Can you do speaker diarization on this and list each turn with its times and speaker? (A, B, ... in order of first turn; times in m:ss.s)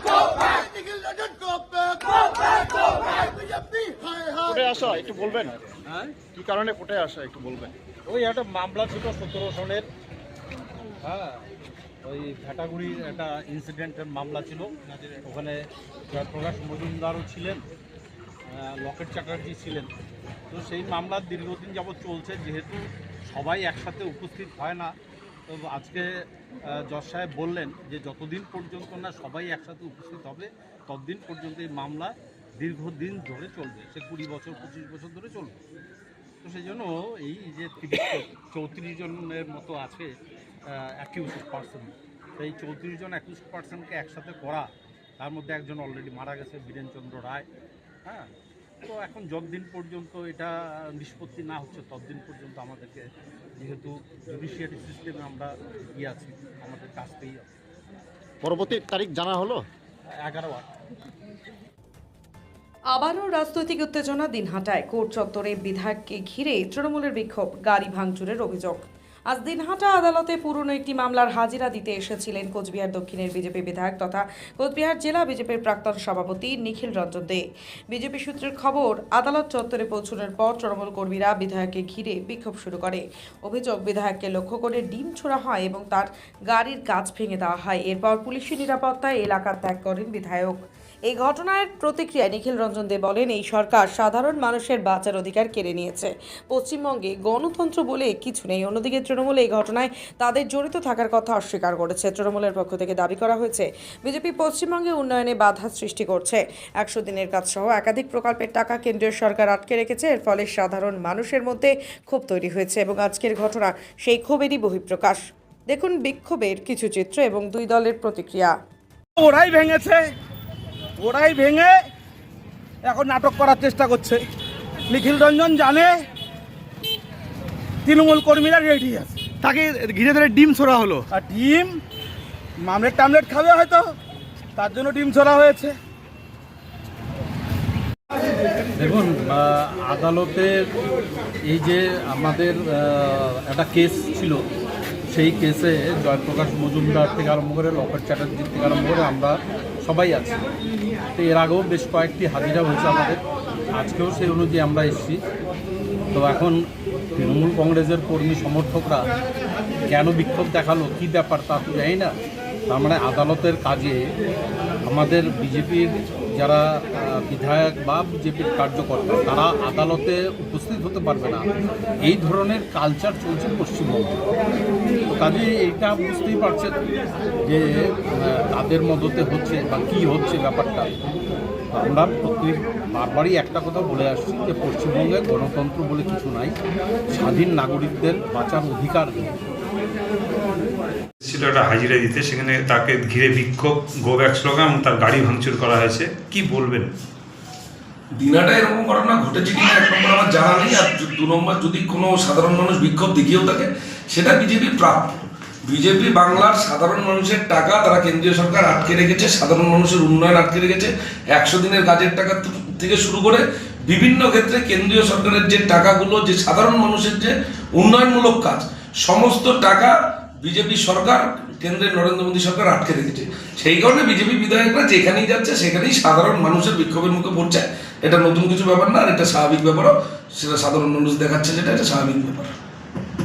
0:00.7-0:02.0 A
0:03.5-0:05.5 A
0:05.7-0:06.1 B
0:06.3-0:07.7 A
0:08.1-0:09.8 B
0:11.0-0:11.4 B
0:12.0-0:17.6 B
0:18.5-0:19.9 B
0:20.5-0:24.9 B
0:25.5-0:35.6 B
0:36.4-0:40.1 B
0:40.7-0:47.5 B
0:48.0-0:48.3 B
0:48.8-0:53.0 B
0:53.6-0:57.5 B
0:58.4-0:59.7 A
1:00.1-1:00.7 B
1:02.9-1:58.5 C
1:59.2-2:00.0 D
2:01.0-2:01.7 D
2:02.8-2:04.2 D
2:04.9-2:06.0 D
2:07.8-2:11.8 D
2:12.6-2:13.9 D
2:14.6-2:15.8 D
2:18.8-2:20.7 B
2:21.4-2:24.4 B
2:25.1-2:30.4 B
2:31.1-2:33.2 B
2:33.7-2:35.2 B
2:36.1-2:39.1 B
2:39.9-2:42.1 B
2:42.7-2:44.1 B
2:44.8-2:51.5 B
2:52.0-2:54.2 B
2:55.1-2:56.7 B
2:57.4-3:00.9 B
3:01.7-3:06.6 B
3:07.1-3:09.3 B
3:11.2-3:16.9 E
3:18.1-3:52.5 F